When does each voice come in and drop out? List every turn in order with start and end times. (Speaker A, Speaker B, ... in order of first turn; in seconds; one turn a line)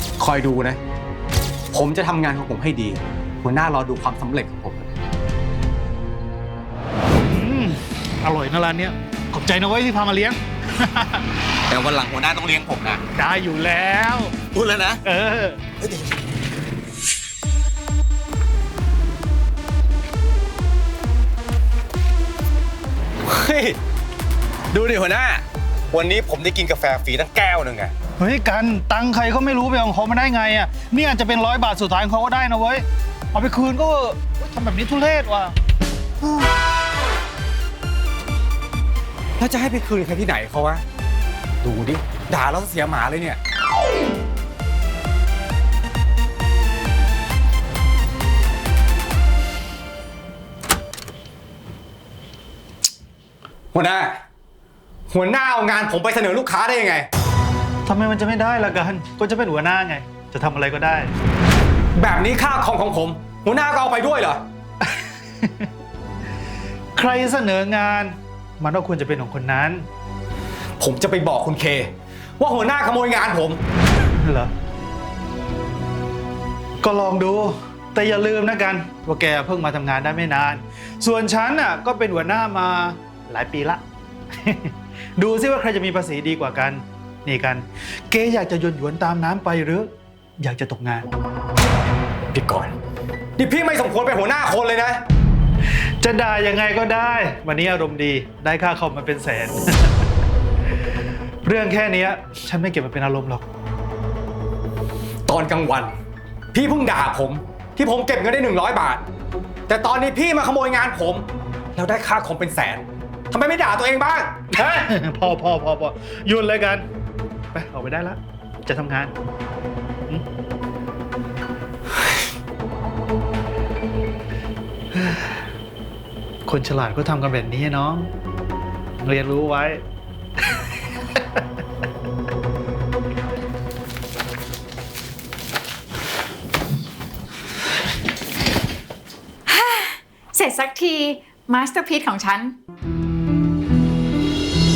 Speaker A: 0.2-0.8
Speaker A: 1.7-4.9
Speaker B: 7.2-11.3
Speaker A: 11.7-13.0
Speaker B: 13.2-14.4
Speaker A: 14.5-15.0
Speaker B: 15.0-15.6
Speaker A: 23.2-23.8
Speaker A: 24.7-27.9
Speaker B: 28.2-35.6
Speaker A: 39.4-40.8
Speaker A: 41.6-43.4
Speaker A: 53.7-54.2
Speaker A: 55.1-57.1
Speaker B: 57.9-61.1
Speaker A: 62.0-64.4
Speaker B: 64.9-65.7
Speaker B: 67.0-69.9
Speaker A: 70.8-73.6
Speaker B: 74.2-74.5
Speaker B: 76.8-83.8
Speaker B: 84.4-91.1
Speaker A: 92.3-92.8
Speaker A: 93.4-95.0
Speaker B: 96.0-100.0
Speaker B: 101.4-103.4
Speaker A: 105.3-105.9
Speaker A: 106.5-109.0
Speaker A: 109.7-114.6
Speaker B: 114.6-116.9
Speaker B: 117.5-119.1
Speaker B: 124.9-125.4
Speaker B: 126.5-128.1
Speaker B: 129.0-129.8
Speaker C: 139.5-142.6